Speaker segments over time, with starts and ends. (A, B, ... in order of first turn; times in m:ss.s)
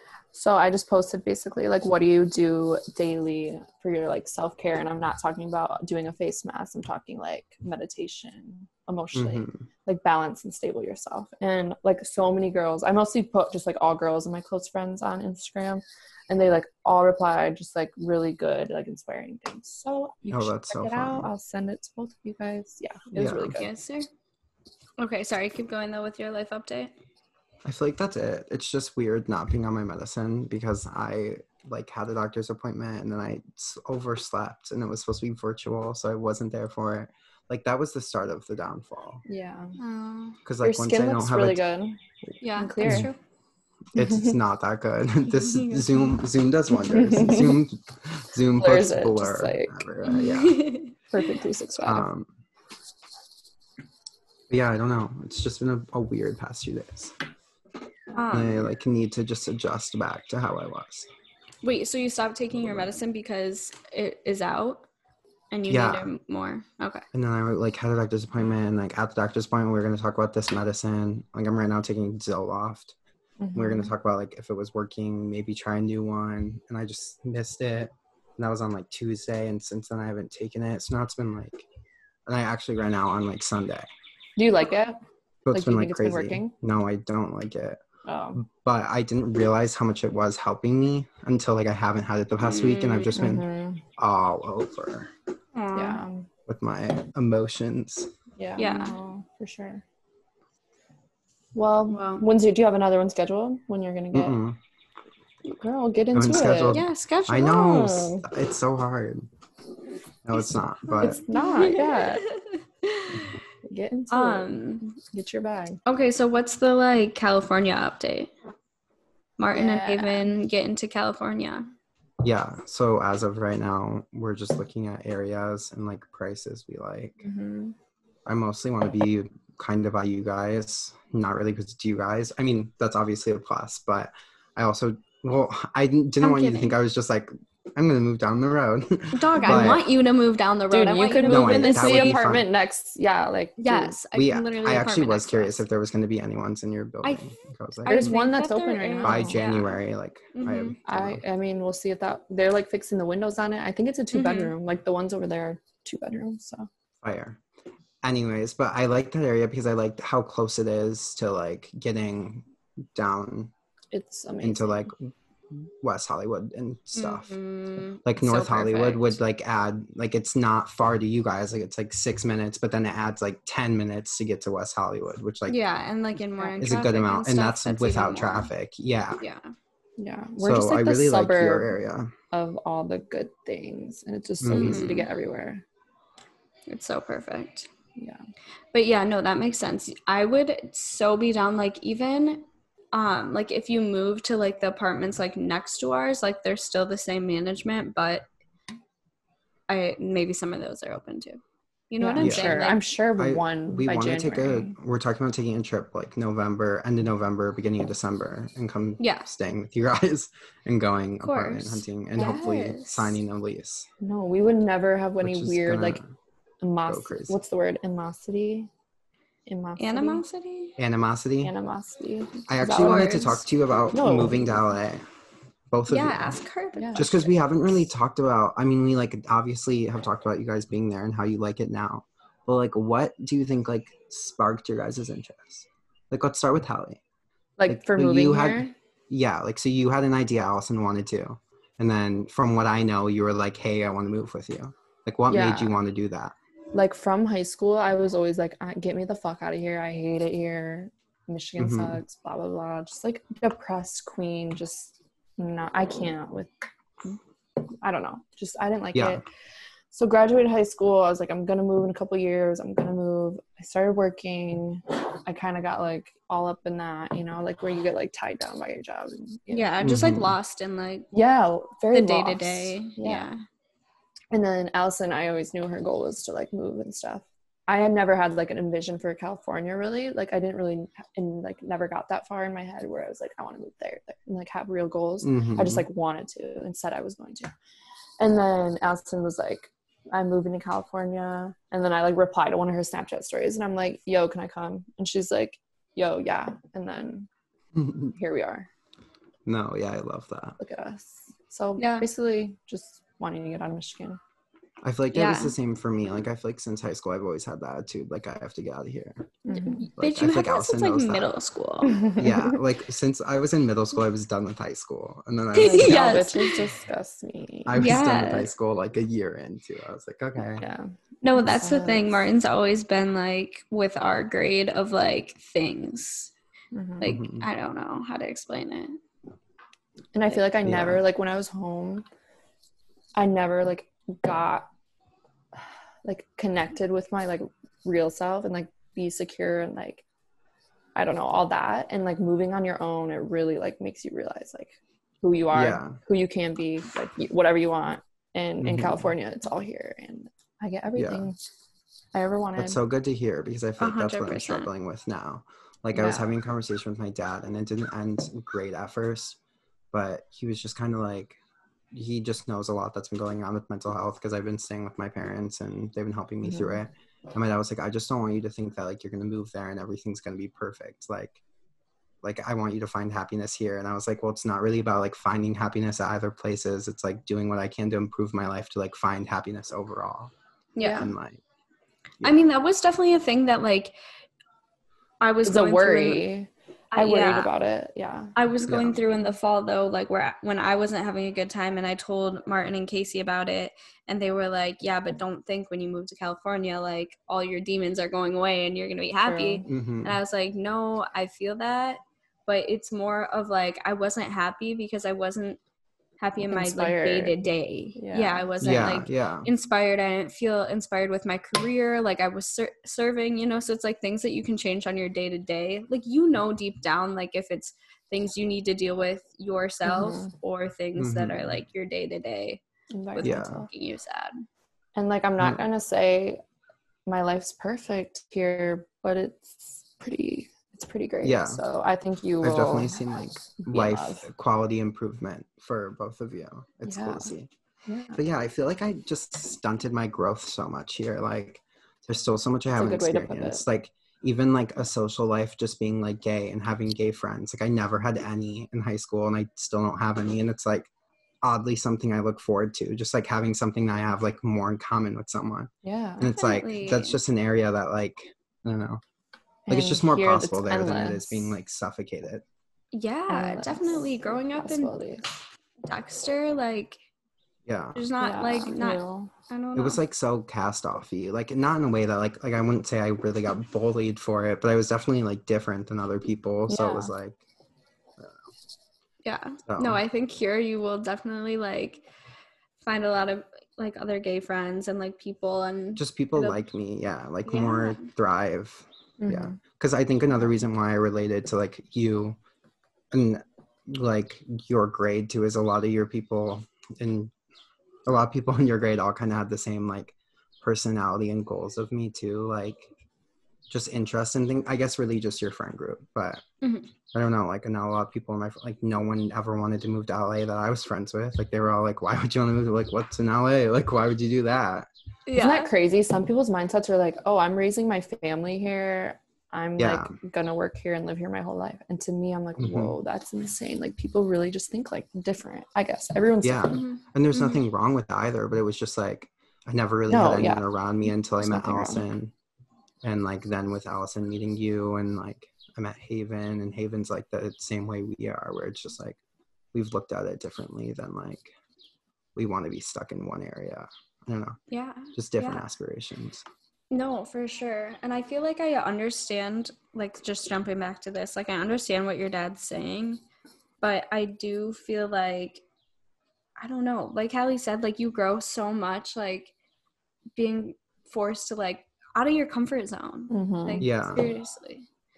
0:00.3-0:23.7 A
0:09.1-0:09.6 B
0:20.3-0:21.3 B
0:23.2-0:23.6 B
0:23.6-0:24.1 C
0:25.0-0:26.9 C
0:27.6-0:39.2 B
0:39.3-0:39.8 A
0:39.8-0:40.4 C
0:40.5-0:41.6 B
0:40.6-0:42.0 A
0:42.4-0:43.2 C
0:42.5-0:43.1 A
0:42.8-0:43.1 B
0:43.9-0:50.7 B
0:44.0-0:44.3 A
0:45.4-0:46.2 C
0:46.9-0:47.6 A
0:48.6-0:49.9 A
0:50.0-0:50.9 C
0:51.1-0:52.1 A
0:51.8-0:52.3 B
0:54.5-0:57.2 B
0:58.1-0:58.7 C
0:58.3-1:01.1 B
1:01.6-1:04.9 C
1:02.6-1:02.9 B
1:05.5-1:07.0 C
1:05.7-1:06.1 B
1:07.1-1:13.0 B
1:13.4-1:13.9 A
1:13.6-1:21.7 B
1:22.3-1:23.9 B
1:24.4-1:25.0 A
1:25.4-1:27.8 B
1:25.5-1:26.5 A
1:28.1-1:28.4 A
1:28.4-1:33.4 B
1:32.4-1:33.2 C
1:33.2-1:33.8 A
1:34.0-1:35.1 B
1:35.6-1:36.0 C
1:35.8-1:36.3 A
1:36.5-1:38.1 B
1:38.4-1:39.8 A
1:38.6-1:39.0 C
1:41.6-1:44.4 A
1:41.9-1:42.2 C
1:44.1-1:44.6 B
1:45.4-1:46.8 A
1:46.1-1:49.3 B
1:46.7-1:48.1 C
1:47.7-1:48.2 A
1:50.2-1:51.2 B
1:51.0-1:52.3 A
1:51.0-1:53.4 C
1:53.6-1:55.8 A
1:54.1-1:54.9 C
1:55.9-1:58.3 C
1:59.4-2:01.7 C
1:59.5-2:00.3 A
2:02.2-2:07.2 B
2:07.2-2:07.8 A
2:08.3-2:19.8 B
2:16.2-2:16.8 C
2:19.1-2:22.2 C
2:19.4-2:19.8 A
2:20.7-2:24.0 A
2:21.3-2:22.5 B
2:23.6-2:25.6 C
2:24.1-2:28.1 B
2:27.8-2:29.8 C
2:27.9-2:29.4 A
2:29.0-2:31.2 B
2:30.3-2:30.8 C
2:30.9-2:36.7 A
2:34.1-2:34.5 C
2:37.0-2:37.4 B
2:38.0-2:43.5 B
2:43.9-2:44.9 A
2:44.4-2:47.4 B
2:47.0-2:49.2 C
2:48.0-2:55.6 B
2:55.5-2:58.5 C
2:56.4-2:56.7 A
2:56.6-2:59.2 B
2:59.2-2:59.5 C
3:00.0-3:01.8 A
3:00.4-3:02.1 B
3:02.3-3:05.6 A
3:04.4-3:04.9 B
3:04.5-3:05.1 C
3:06.7-3:07.7 C
3:08.7-3:18.3 C
3:19.7-3:22.8 C
3:22.0-3:24.8 A
3:22.2-3:22.6 B
3:23.2-3:33.9 B
3:29.0-3:29.3 C
3:31.2-3:33.2 C
3:34.0-3:36.0 A
3:35.2-3:36.1 B
3:36.6-3:38.7 A
3:36.8-3:37.4 B
3:39.5-3:40.2 A
3:39.8-3:40.8 C
3:40.8-3:41.5 B
3:41.4-3:44.6 A
3:42.5-3:45.0 B
3:42.8-3:43.4 C
3:45.7-3:46.4 B
3:45.9-3:47.3 C
3:46.8-3:47.2 A
3:47.0-3:57.0 B
3:57.6-3:58.7 A
3:57.7-4:06.3 B
4:05.3-4:05.7 A
4:06.7-4:16.5 A
4:11.6-4:12.0 B
4:17.8-4:19.2 A
4:18.9-4:19.2 B
4:19.9-4:29.7 A
4:29.5-4:31.1 C
4:29.8-4:30.3 B
4:31.1-4:33.3 A
4:31.9-4:33.4 C
4:34.3-4:47.5 A
4:45.2-4:45.9 B
4:48.2-4:57.3 A
4:57.8-4:58.2 B
4:58.1-4:58.7 A
4:59.5-5:00.6 B
5:00.6-5:04.2 A
5:01.8-5:02.1 C
5:04.8-5:09.3 B
5:05.1-5:05.5 C
5:09.5-5:09.9 A
5:09.5-5:12.0 C
5:10.0-5:11.4 B
5:11.9-5:12.6 A
5:12.2-5:16.2 B
5:15.5-5:16.6 C
5:15.6-5:17.9 A
5:17.7-5:20.6 B
5:17.8-5:18.5 C
5:20.6-5:22.2 A
5:21.2-5:26.3 C
5:26.7-5:27.1 A
5:27.0-5:29.0 C
5:27.0-5:27.5 B
5:30.1-5:32.0 A
5:30.6-5:31.0 B
5:33.2-5:34.7 A
5:36.0-5:40.0 A
5:41.0-5:51.4 A
5:45.5-5:46.0 B
5:48.6-5:49.1 B
5:51.0-5:51.3 B
5:52.1-5:52.8 A
5:52.6-5:59.4 B
5:53.8-5:54.7 C
5:55.9-5:56.3 A
5:59.9-6:01.4 B
6:01.9-6:11.4 B
6:06.4-6:06.8 A
6:12.2-6:20.3 B
6:20.8-6:21.1 C
6:20.8-6:21.1 A
6:20.9-6:21.4 B
6:22.2-6:23.9 C
6:25.2-6:26.2 C
6:25.4-6:28.3 A
6:26.9-6:27.5 C
6:28.4-6:45.6 C
6:28.7-6:29.0 B
6:39.2-6:39.7 A
6:39.7-6:40.2 B
6:46.2-7:02.6 C
6:46.4-6:47.4 A
6:48.0-6:48.8 A
6:48.6-6:49.5 B
6:59.8-7:00.3 A
7:01.0-7:01.6 B
7:02.9-7:03.7 A
7:03.1-7:04.4 C
7:03.2-7:03.7 B
7:05.0-7:06.4 A
7:07.1-7:14.3 A
7:11.2-7:11.6 B
7:12.4-7:17.5 B
7:16.8-7:17.3 A
7:17.9-7:18.2 A
7:18.2-7:30.9 B
7:22.8-7:23.6 A
7:31.4-7:39.0 B
7:35.8-7:36.3 A
7:36.2-7:37.2 C
7:39.7-7:41.6 A
7:39.7-7:42.4 B
7:42.9-7:44.9 C
7:43.3-7:45.3 A
7:45.9-7:47.0 C
7:47.7-7:48.0 B
7:48.0-7:50.0 C
7:48.2-7:49.3 A
7:49.8-7:57.4 B
7:56.7-7:57.1 A
7:59.2-8:02.1 C
7:59.7-8:00.0 B
8:02.8-8:06.6 C
8:06.0-8:12.4 B
8:07.4-8:08.1 C
8:09.2-8:09.6 A
8:13.1-8:17.3 B
8:18.1-8:22.9 B
8:23.7-8:26.4 B
8:26.6-8:26.9 C
8:27.1-8:34.9 B
8:35.3-8:35.7 C
8:35.4-8:46.8 A
8:39.8-8:40.2 B
8:42.6-8:43.0 B
8:46.4-8:52.3 B
8:46.7-8:47.6 C
8:50.1-8:50.7 A
8:51.4-8:52.0 A
8:53.0-8:59.2 B
8:59.7-9:01.5 B
9:02.4-9:04.6 B
9:04.7-9:05.6 C
9:05.2-9:06.4 B
9:06.9-9:13.2 C
9:13.8-9:15.6 C
9:16.6-9:19.5 C
9:20.4-9:24.9 C
9:23.3-9:23.9 A
9:23.8-9:24.2 B